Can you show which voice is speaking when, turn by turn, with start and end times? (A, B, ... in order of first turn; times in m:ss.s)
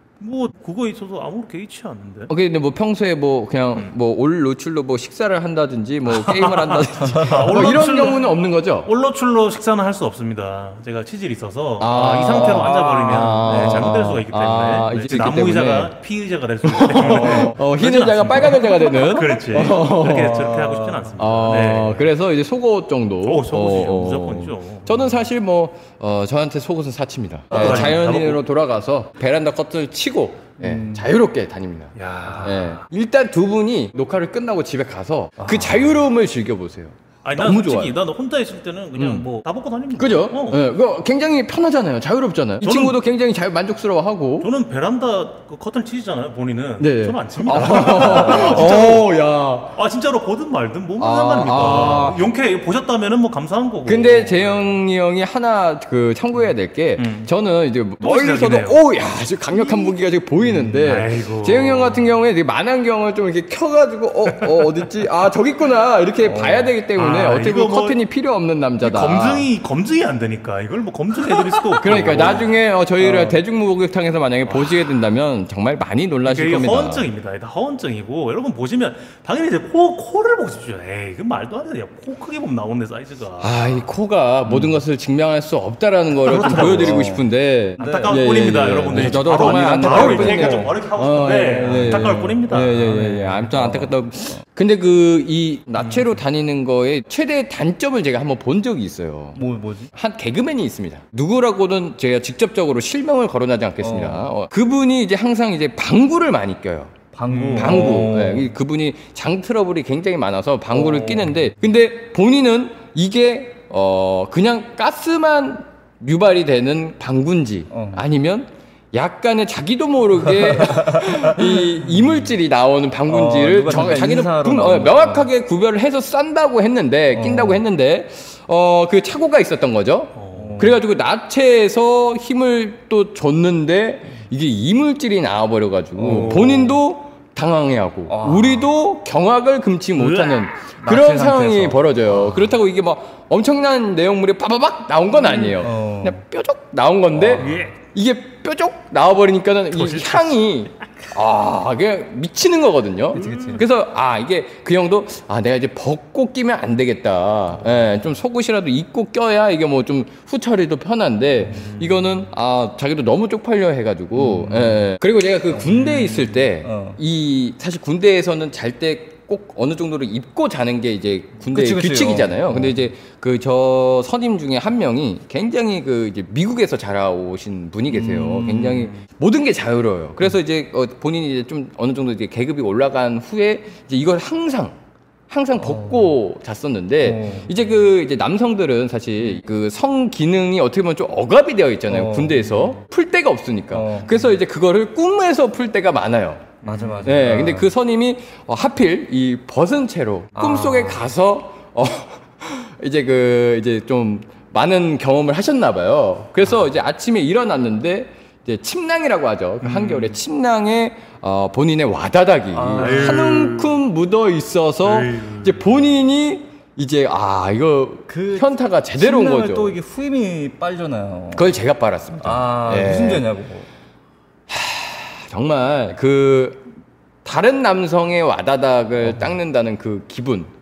0:00.2-0:02.3 A
0:02.3-0:08.9 B
0:06.1-0:22.1 A
0:11.8-0:15.9 B
0:11.9-0:13.9 C
0:16.6-0:38.0 B
0:17.2-0:17.5 C
0:23.2-0:25.2 A
0:27.5-0:28.4 A
0:27.5-0:27.9 C
0:30.6-0:31.1 C
0:32.0-0:32.8 A
0:35.4-0:35.7 C
0:37.2-0:40.6 A
0:39.0-0:39.3 B
0:40.0-0:44.5 B
0:42.6-0:43.0 A
0:44.4-0:49.1 A
0:46.8-0:49.8 B
0:49.7-0:54.8 A
0:51.0-0:52.3 B
0:53.8-1:09.5 B
0:57.0-0:57.3 A
0:58.0-0:58.8 A
0:59.5-1:00.0 A
1:00.4-1:00.8 C
1:00.7-1:02.1 A
1:04.3-1:04.8 A
1:06.2-1:06.7 C
1:07.0-1:08.0 A
1:08.8-1:12.6 A
1:11.3-1:17.1 B
1:13.0-1:13.4 C
1:14.5-1:15.0 A
1:16.2-1:23.8 A
1:23.4-1:39.4 B
1:24.5-1:24.8 C
1:26.2-1:27.1 A
1:26.2-1:27.3 C
1:27.8-1:28.2 C
1:27.8-1:32.8 A
1:28.9-1:34.4 C
1:35.8-1:36.1 A
1:39.4-1:39.9 C
1:39.9-1:47.0 B
1:43.8-1:44.3 C
1:47.1-1:48.5 C
1:47.3-1:48.0 A
1:47.5-3:04.8 B
1:50.7-1:51.3 C
1:57.7-1:58.0 C
2:00.2-2:01.8 C
2:03.1-2:05.3 C
2:07.1-2:07.6 C
2:10.2-2:10.6 A
2:10.3-2:10.8 C
2:16.0-2:16.8 C
2:16.1-2:16.6 A
2:18.1-2:18.7 C
2:20.0-2:20.5 A
2:20.8-2:22.4 C
2:25.3-2:26.2 C
2:27.2-2:27.7 C
2:27.3-2:27.8 A
2:29.7-2:30.3 A
2:33.1-2:33.6 C
2:33.2-2:33.6 A
2:41.5-2:41.7 C
2:41.5-2:42.2 A
2:44.2-2:44.8 C
2:46.0-2:46.3 A
2:46.6-2:47.0 C
2:51.5-2:52.8 C
2:57.9-2:58.9 C
3:05.3-3:39.8 B
3:05.6-3:06.2 C
3:07.0-3:07.5 C
3:11.9-3:12.8 C
3:13.7-3:14.2 C
3:16.6-3:17.2 A
3:16.6-3:17.7 C
3:20.4-3:21.1 C
3:29.6-3:30.2 A
3:32.5-3:33.4 C
3:32.8-3:33.8 A
3:34.8-3:35.8 A
3:38.1-3:41.6 C
3:41.3-3:43.3 B
3:42.2-3:43.7 C
3:44.5-3:46.7 B
3:47.2-3:50.5 B
3:49.0-3:49.4 C